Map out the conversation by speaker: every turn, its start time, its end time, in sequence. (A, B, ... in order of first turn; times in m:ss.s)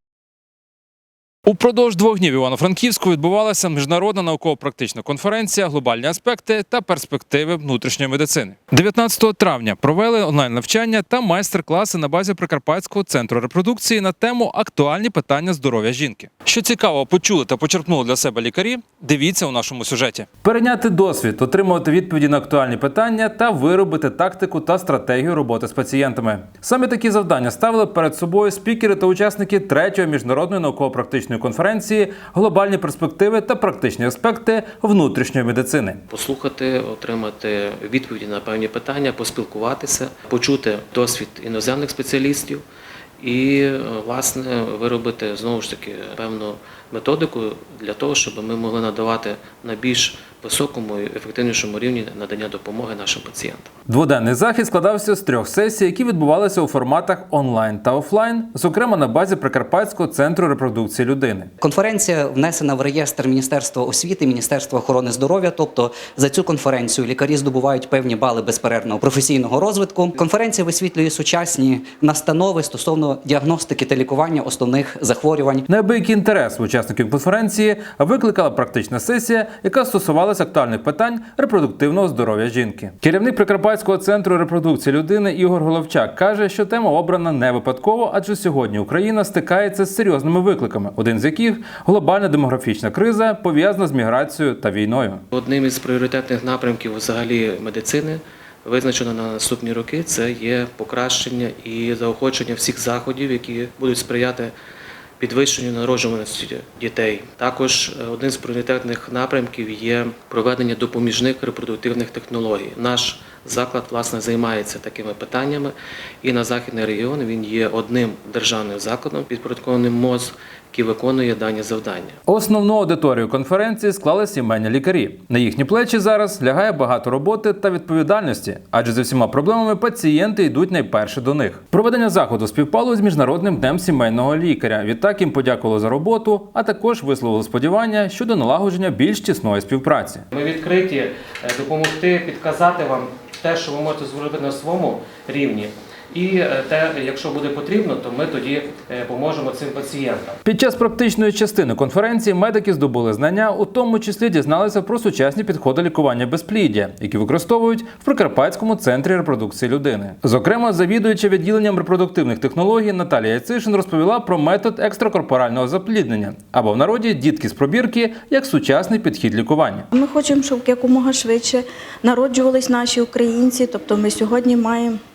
0:01.5-0:36.0 A
0:36.1-0:42.6 B
0:43.2-0:53.7 B
0:53.9-1:01.5 A
1:01.6-1:15.7 C
1:15.7-1:35.2 A
1:35.3-1:44.5 B
1:45.2-2:02.2 B
2:02.3-2:20.2 A
2:20.3-2:30.4 B
2:30.4-2:49.9 A
2:49.9-2:55.0 D